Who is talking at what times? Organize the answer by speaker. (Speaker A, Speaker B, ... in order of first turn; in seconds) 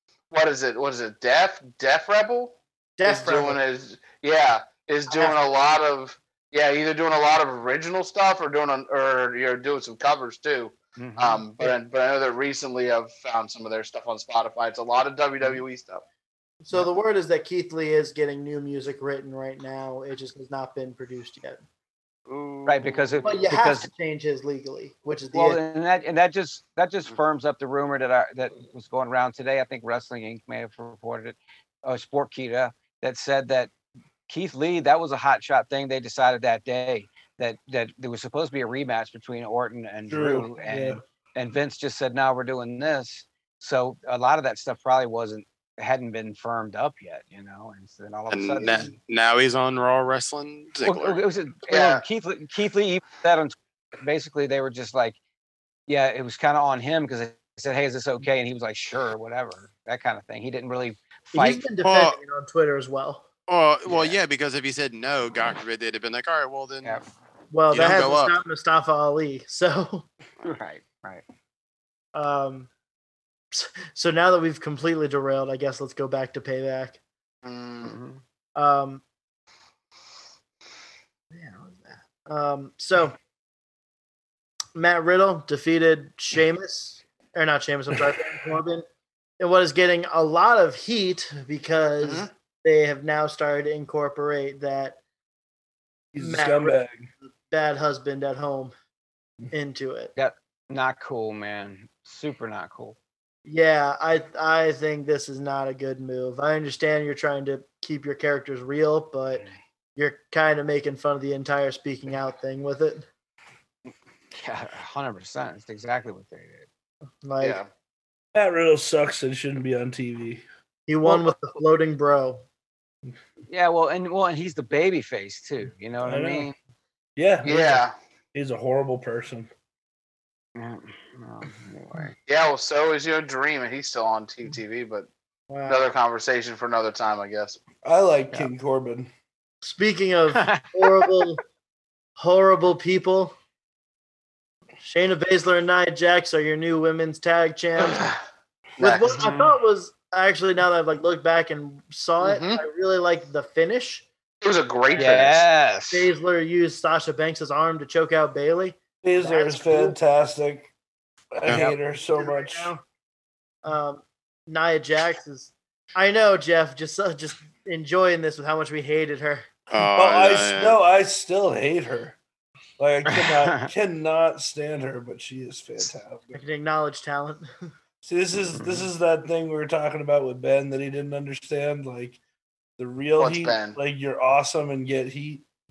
Speaker A: 0.3-16.0, 22.3-22.7, 51.7-52.0, 77.4-78.0, 92.0-92.3, 117.4-117.7, 127.4-127.9, 132.3-135.1, 135.7-137.6, 148.8-149.2, 152.2-152.6, 154.4-155.4, 183.2-183.8
Speaker B: 3.0-3.6, 5.1-5.8, 16.6-21.6, 23.2-25.6, 61.3-63.2, 67.5-70.1, 72.2-72.7, 73.5-77.0, 78.6-79.0, 81.3-83.2, 84.8-88.8, 89.4-95.0, 96.2-98.7, 99.5-100.1, 103.5-109.5, 110.0-113.1, 117.2-117.6, 120.9-122.4, 135.5-135.9, 139.6-141.4, 142.2-143.3, 144.8-148.1, 148.8-154.1, 155.9-160.0, 162.1-162.8, 163.6-169.5, 176.3-177.5
Speaker C: 11.0-11.4, 22.7-23.9, 25.3-33.7, 34.3-48.9, 50.8-55.2, 55.9-61.6, 63.9-64.2, 70.4-71.2, 77.8-78.2, 100.2-103.0, 114.3-116.7, 123.5-126.5, 130.6-132.2, 140.3-141.1, 149.1-149.5, 155.0-156.1, 161.5-161.8, 173.1-173.7, 178.5-178.9
Speaker D: 40.1-41.0, 96.1-97.1, 118.3-120.4, 126.0-126.5, 127.2-129.5, 137.8-139.1, 159.0-160.7, 161.3-162.7, 169.8-172.2, 172.8-176.3, 178.0-182.2, 182.8-185.4
Speaker E: 48.3-51.2, 61.8-62.2, 63.5-67.0, 67.7-68.3, 169.7-170.8